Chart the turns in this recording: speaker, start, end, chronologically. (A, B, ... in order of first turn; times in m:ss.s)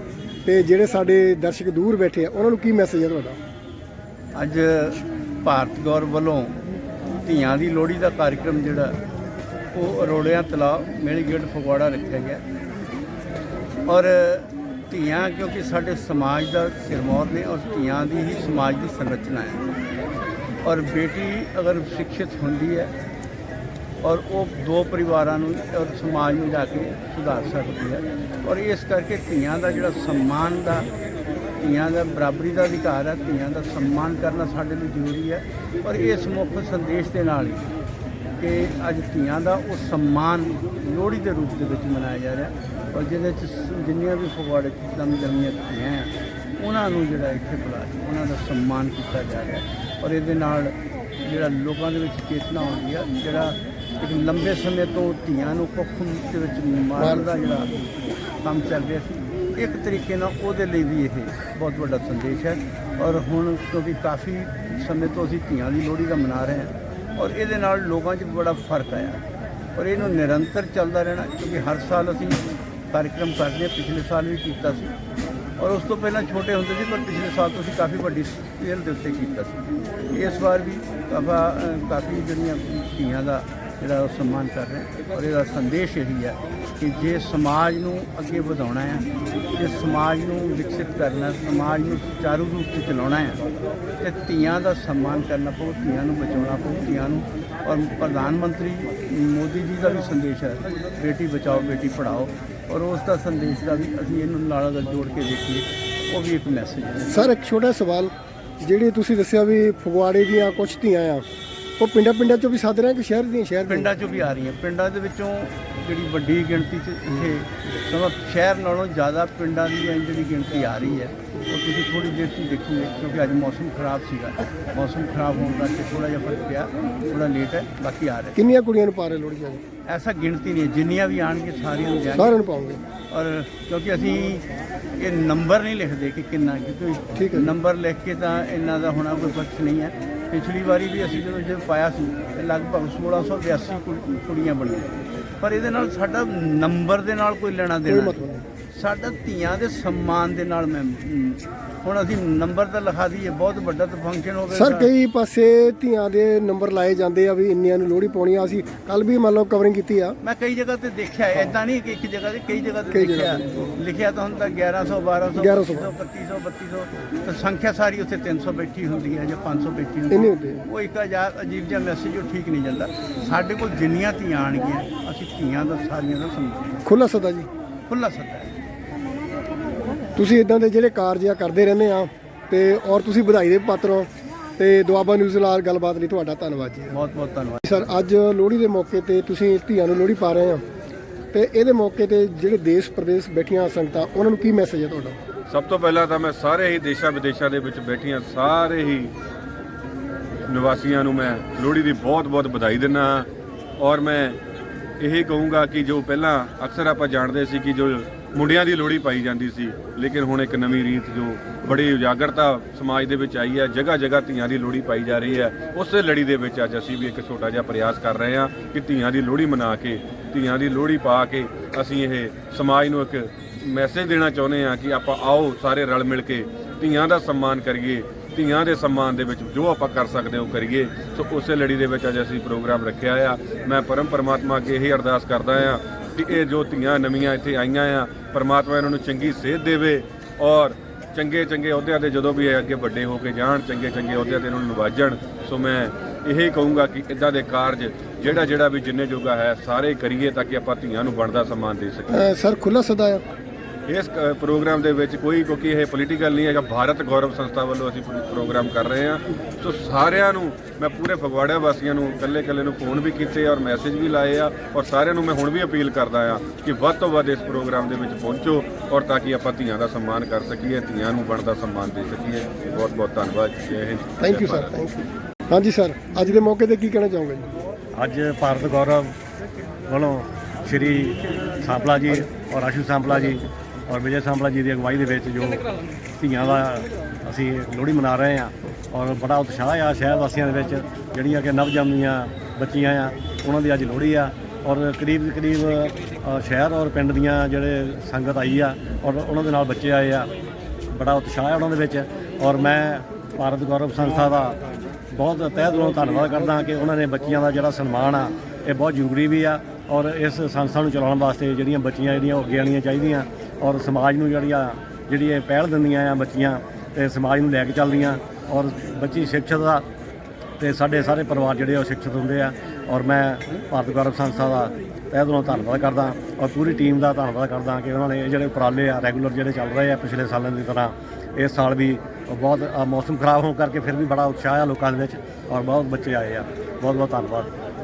0:00.4-0:03.4 A
0:04.3-0:06.6 B
0:07.2-0:09.0 B
0:09.7-0:12.4 B
0:13.8-0:19.6 B
0:20.6-0:22.9 B
0:24.0-0:30.9 B
0:31.6-0:37.7 B
0:38.4-1:09.2 B
0:57.0-0:57.2 A
1:09.8-1:14.9 B
1:15.6-1:33.5 B
1:34.0-1:47.1 B
1:47.0-1:51.2 A
1:51.8-1:53.9 A
1:53.7-2:08.4 B
2:08.3-2:09.6 A
2:09.9-2:12.4 B
2:12.1-2:12.8 A
2:13.1-2:34.9 B
2:17.2-2:17.5 A
2:27.9-2:28.4 A
2:34.5-2:40.2 A
2:40.2-2:56.8 B
2:42.9-2:43.7 A
2:45.3-2:45.9 A
2:50.1-2:50.6 A
2:56.8-2:57.5 A
2:57.9-2:58.6 B
3:00.2-3:06.9 A
3:06.9-3:07.9 B
3:07.6-3:10.6 A
3:11.3-3:15.2 A
3:15.5-3:19.1 C
3:20.5-3:24.4 C
3:25.0-4:12.2 C
4:12.1-4:13.2 A
4:13.9-4:34.8 C
4:34.2-4:37.5 A
4:38.0-4:39.2 D
4:39.9-5:00.3 D
5:00.9-5:04.6 D
5:05.1-5:19.9 D
5:20.6-5:37.5 D